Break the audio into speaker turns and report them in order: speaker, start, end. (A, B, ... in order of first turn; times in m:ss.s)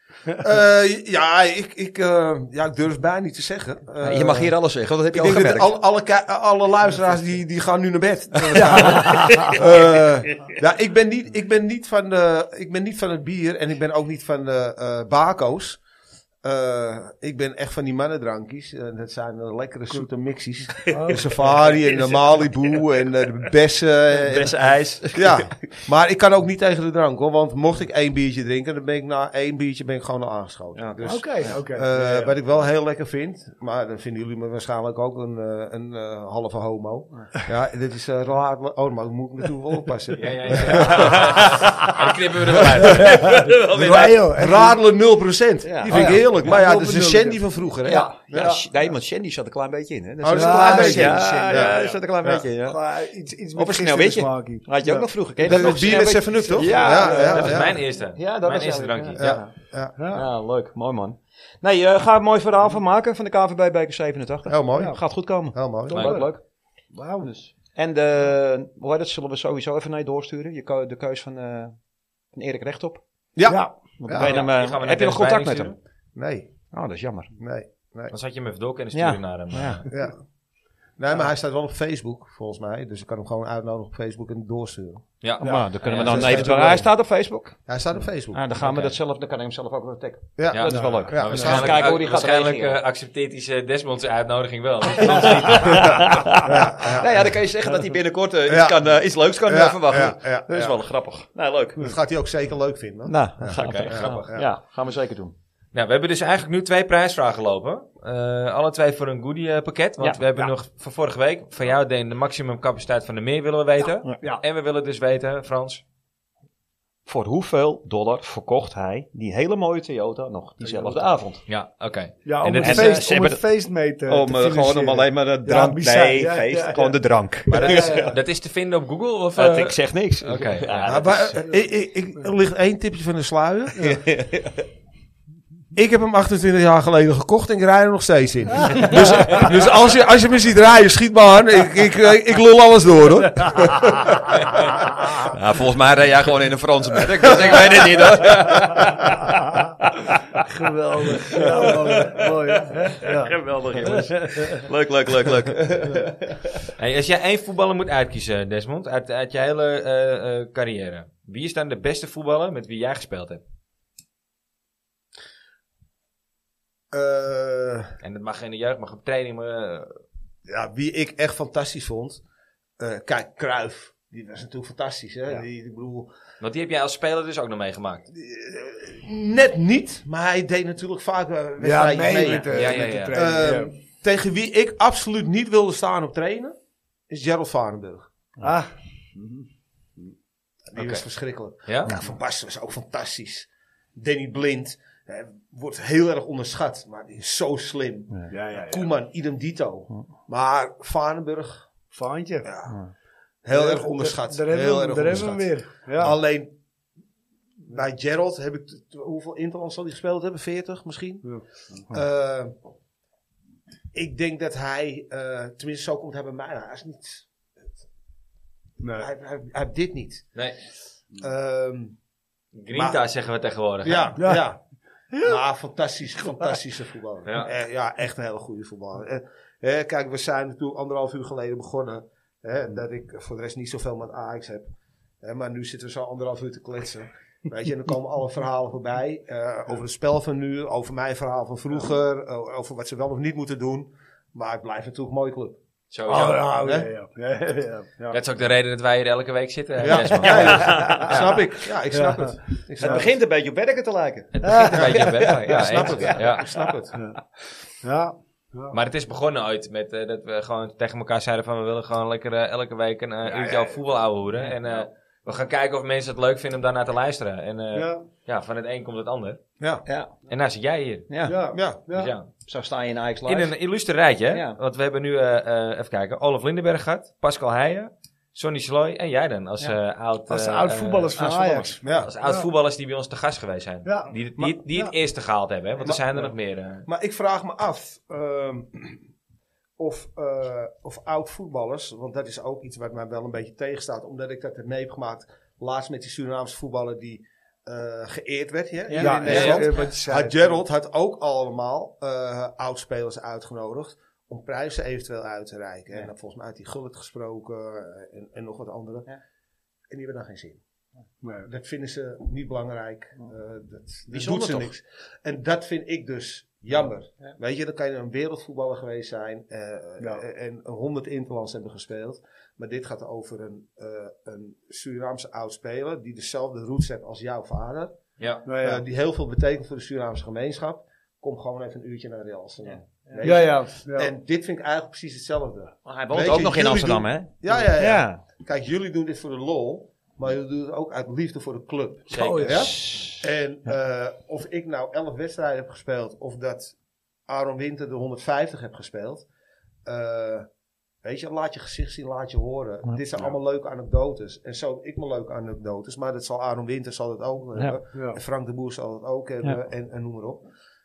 0:00.4-0:04.5 A
0:04.0-0:05.7 B
0:05.1-0:15.8 A
0:08.4-0:09.6 B
0:08.6-0:09.6 C
0:16.4-0:41.9 A
0:20.9-0:21.3 C
0:21.4-0:22.8 B
0:24.1-0:25.7 B
0:30.7-0:31.6 B
0:31.0-0:32.3 C
0:40.1-0:43.4 D
0:40.7-0:42.0 B
0:42.6-0:43.2 A
0:42.9-0:44.2 B
0:43.2-0:44.8 C
0:43.7-0:48.6 A
0:45.6-0:46.2 B
0:45.9-0:48.6 C
0:47.8-0:52.8 B
0:50.2-0:52.4 A
0:50.3-0:52.0 C
0:52.6-0:57.4 C
0:53.6-0:59.5 B
0:55.4-0:57.8 A
0:57.1-0:59.4 D
0:59.2-1:00.0 A
1:00.0-1:00.2 C
1:00.1-1:06.4 B
1:04.4-1:06.1 A
1:05.9-1:06.3 C
1:05.9-1:06.2 D
1:06.9-1:07.3 C
1:07.2-1:11.8 B
1:12.3-1:13.0 B
1:13.3-1:14.4 A
1:13.5-1:13.8 C
1:14.0-1:15.7 B
1:14.1-1:15.7 D
1:16.1-1:16.5 A
1:16.7-1:17.3 B
1:17.4-1:18.1 A
1:18.1-1:19.9 D
1:18.9-1:19.9 B
1:19.9-1:20.2 A
1:21.0-1:26.9 A
1:25.2-1:26.5 D
1:25.4-1:27.7 B
1:27.7-1:28.5 A
1:28.3-1:32.8 B
1:28.6-1:28.9 D
1:30.4-1:32.0 A
1:30.5-1:36.3 D
1:30.7-1:31.0 C
1:35.0-1:41.9 B
1:36.4-1:37.3 A
1:38.4-1:40.8 A
1:41.8-1:44.5 A
1:43.0-1:45.3 B
1:43.6-1:44.4 D
1:45.7-1:55.8 D
1:50.0-1:50.5 B
1:57.0-2:01.4 B
2:00.6-2:01.1 C
2:01.5-2:03.0 D
2:02.2-2:08.1 C
2:02.6-2:08.1 B
2:07.5-2:11.3 D
2:09.4-2:11.4 B
2:10.8-2:14.0 A
2:13.8-2:14.6 B
2:15.7-2:25.1 A
2:25.2-2:30.1 B
2:27.1-2:28.3 A
2:30.4-2:34.6 C
2:31.3-2:36.4 B
2:36.8-2:43.4 D
2:46.9-2:48.0 A
2:48.0-2:50.0 D
2:50.4-2:52.2 A
2:52.8-2:56.1 A
2:56.4-2:58.1 D
2:58.1-3:06.6 A
3:01.6-3:03.7 C
3:02.4-3:03.2 D
3:07.1-3:08.1 A
3:08.4-3:09.5 C
3:10.7-3:21.7 A
3:10.8-3:11.0 D
3:11.6-3:12.0 D
3:18.3-3:18.9 C
3:21.9-3:22.5 C
3:22.4-3:22.8 A
3:22.7-3:22.9 B
3:23.4-3:26.6 A
3:23.5-3:26.1 C
3:27.6-3:32.5 A
3:31.2-3:31.8 C
3:33.9-3:37.4 A
3:38.8-3:39.1 C
3:39.0-3:40.3 A
3:41.2-3:42.0 A
3:42.5-3:44.2 D
3:42.7-3:43.0 A
3:43.8-3:44.6 A
3:44.2-3:44.4 C
3:45.1-3:45.4 C
3:45.2-3:54.7 A
3:47.2-3:47.5 D
3:55.2-4:05.6 A
4:05.9-4:06.5 D
4:06.1-4:08.2 C
4:06.5-4:06.9 A
4:08.1-4:11.3 D
4:09.8-4:13.1 A
4:10.2-4:11.2 B
4:11.9-4:12.3 C
4:12.8-4:16.7 B
4:14.3-4:16.6 D
4:14.4-4:14.9 C
4:14.7-4:17.0 A
4:17.8-4:18.8 C
4:18.7-4:29.4 D
4:27.7-4:28.0 C
4:29.8-4:30.1 B
4:30.3-4:31.1 D
4:31.1-4:31.4 B
4:31.2-4:32.1 C
4:31.5-4:31.8 A
4:31.8-4:32.3 D
4:32.4-4:33.6 B
4:33.2-4:41.1 D
4:34.3-4:34.6 B
4:40.3-4:42.5 C
4:41.2-4:41.8 B
4:41.8-4:42.1 A
4:42.0-4:46.8 D
4:43.8-4:44.9 C
4:45.8-4:46.3 A
4:46.8-4:49.0 A
4:49.8-5:09.1 A
4:58.9-4:59.7 B
4:59.0-5:00.6 C
4:59.2-4:59.8 D
5:09.9-5:10.6 A
5:11.2-5:11.5 C
5:11.4-5:27.9 A
5:14.1-5:14.7 B
5:28.2-5:28.4 D
5:28.4-5:28.8 C
5:28.6-5:46.8 A
5:32.6-5:33.3 B
5:33.2-5:34.1 C
5:35.8-5:38.2 B
5:42.1-5:42.7 C
5:42.1-5:42.9 D
5:42.6-5:43.2 B
5:47.3-5:49.2 A
5:49.8-5:50.5 A
5:51.0-6:00.4 A
5:57.9-5:58.2 C